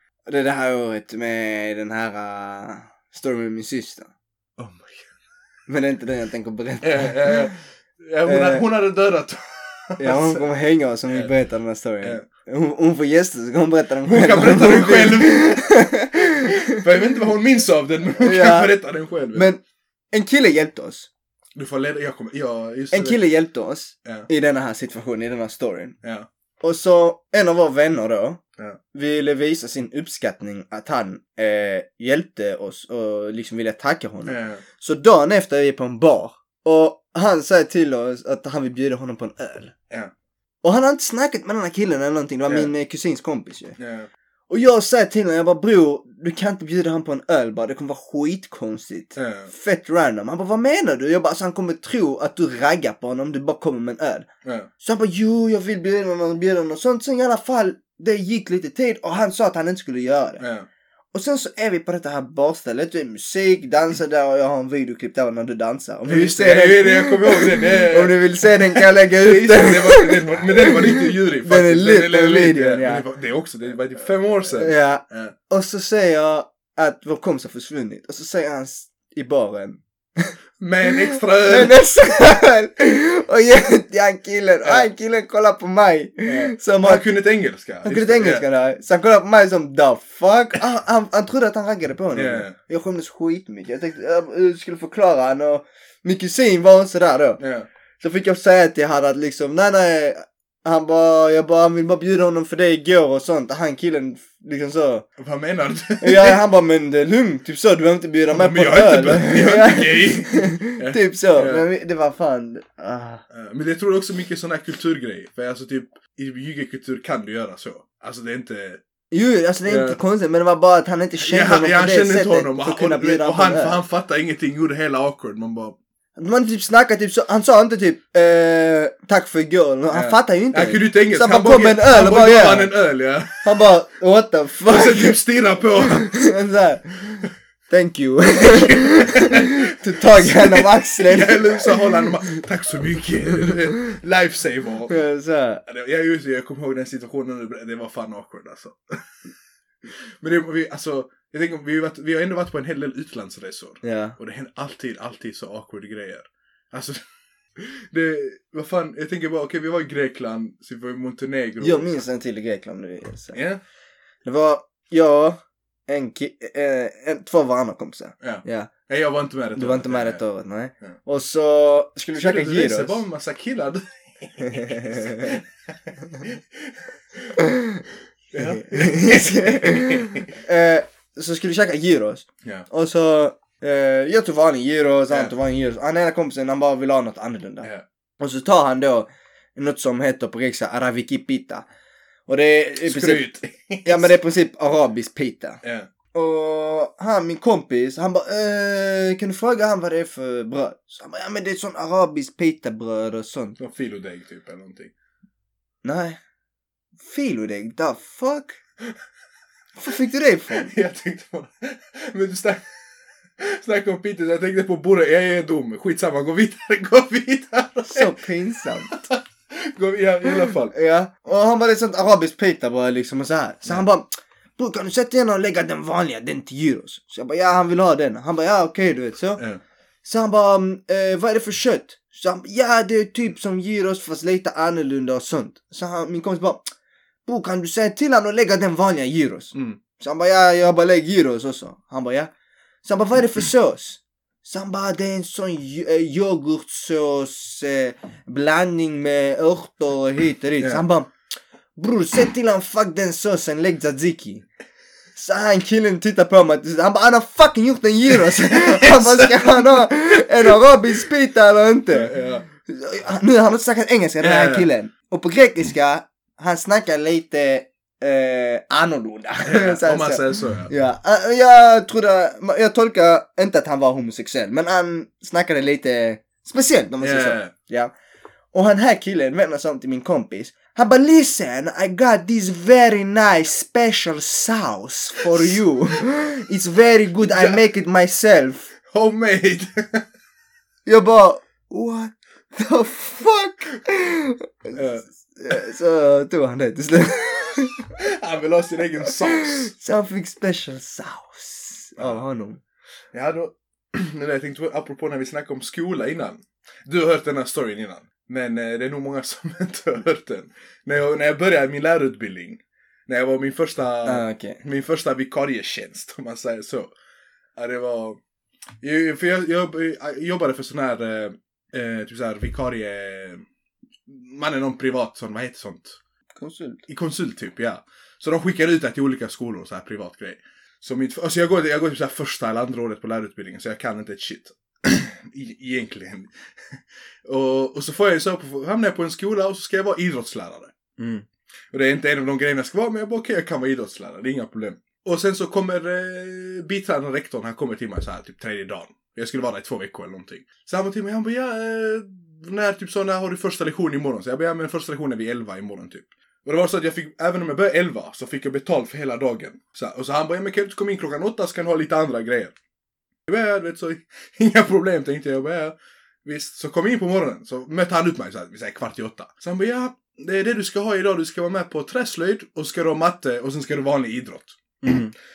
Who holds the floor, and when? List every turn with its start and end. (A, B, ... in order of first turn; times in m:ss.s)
0:00.3-0:04.1 A
0:04.6-0:05.1 B
0:05.7-0:07.5 A
0:06.8-0:10.4 B
0:08.2-0:08.6 A
0:10.0-0:16.8 A
0:14.1-0:19.5 B
0:18.2-0:18.8 A
0:19.3-0:21.1 A
0:21.5-0:23.2 B
0:22.9-0:26.0 A
0:26.6-0:28.4 A
0:28.9-0:39.7 A
0:34.2-0:34.6 B
0:40.6-0:43.7 A
0:42.4-0:42.7 B
0:43.8-0:44.1 B
0:44.5-0:54.3 A
0:49.2-0:49.5 B
0:54.4-0:54.7 B
0:54.8-1:00.4 A
1:00.4-1:00.7 B
1:01.1-1:13.0 A
1:06.1-1:15.3 B
1:14.5-1:20.3 A
1:20.6-1:21.8 B
1:20.8-1:27.0 A
1:26.2-1:28.4 B
1:27.8-1:37.4 A
1:32.1-1:32.6 B
1:37.4-1:37.7 B
1:38.0-1:45.1 A
1:45.2-1:46.4 B
1:46.0-1:53.2 A
1:48.3-1:51.6 B
1:53.3-1:58.8 B
1:59.1-2:03.8 A
1:59.7-2:00.0 B
2:01.2-2:05.8 B
2:06.2-2:12.7 A
2:09.9-2:13.7 B
2:13.4-2:15.2 A
2:14.7-2:16.2 B
2:15.8-2:22.1 A
2:18.4-2:25.0 B
2:24.9-2:25.6 A
2:25.7-2:29.0 B
2:30.2-2:37.0 B
2:33.8-2:34.2 A
2:37.6-2:42.0 B
2:41.6-2:43.4 A
2:43.3-2:43.6 B
2:44.2-2:48.7 A
2:48.2-2:50.2 B
2:49.6-2:53.0 A
2:52.2-2:57.4 B
2:54.4-2:55.4 A
2:57.4-2:57.8 A
2:58.3-3:00.4 B
2:58.4-3:11.7 A
3:12.3-3:13.2 A
3:12.8-3:14.1 B
3:13.8-3:15.6 A
3:15.6-3:15.9 B
3:16.1-3:23.6 A
3:23.6-3:24.9 B
3:25.8-3:26.2 A
3:27.0-3:28.6 A
3:29.8-3:30.7 A
3:30.5-3:32.6 B
3:33.4-3:38.1 B
3:37.9-3:38.9 A
3:38.9-3:40.7 B
3:40.3-3:49.4 A
3:50.0-3:56.7 A
3:57.2-4:02.3 A
3:59.5-3:59.8 B
4:02.8-4:11.1 A
4:11.8-4:14.4 A
4:15.2-4:22.1 A
4:18.4-4:20.5 B
4:21.9-4:22.5 B
4:22.6-4:37.9 A
4:24.2-4:24.7 B
4:29.4-4:30.7 B
4:37.0-4:37.5 B
4:38.5-4:48.7 A
4:47.2-4:47.6 B
4:48.9-4:50.0 B
4:50.8-4:57.9 A
4:54.7-4:55.0 B
4:58.0-4:59.7 B
4:59.4-5:02.6 A
5:02.0-5:02.2 B
5:03.1-5:16.9 B
5:14.0-5:14.6 A
5:17.6-5:18.2 B
5:18.8-5:23.4 B
5:24.1-5:26.0 B
5:26.3-5:26.8 A
5:26.9-5:40.9 B
5:41.7-6:02.5 B
6:03.3-6:14.9 B
6:14.8-6:15.1 A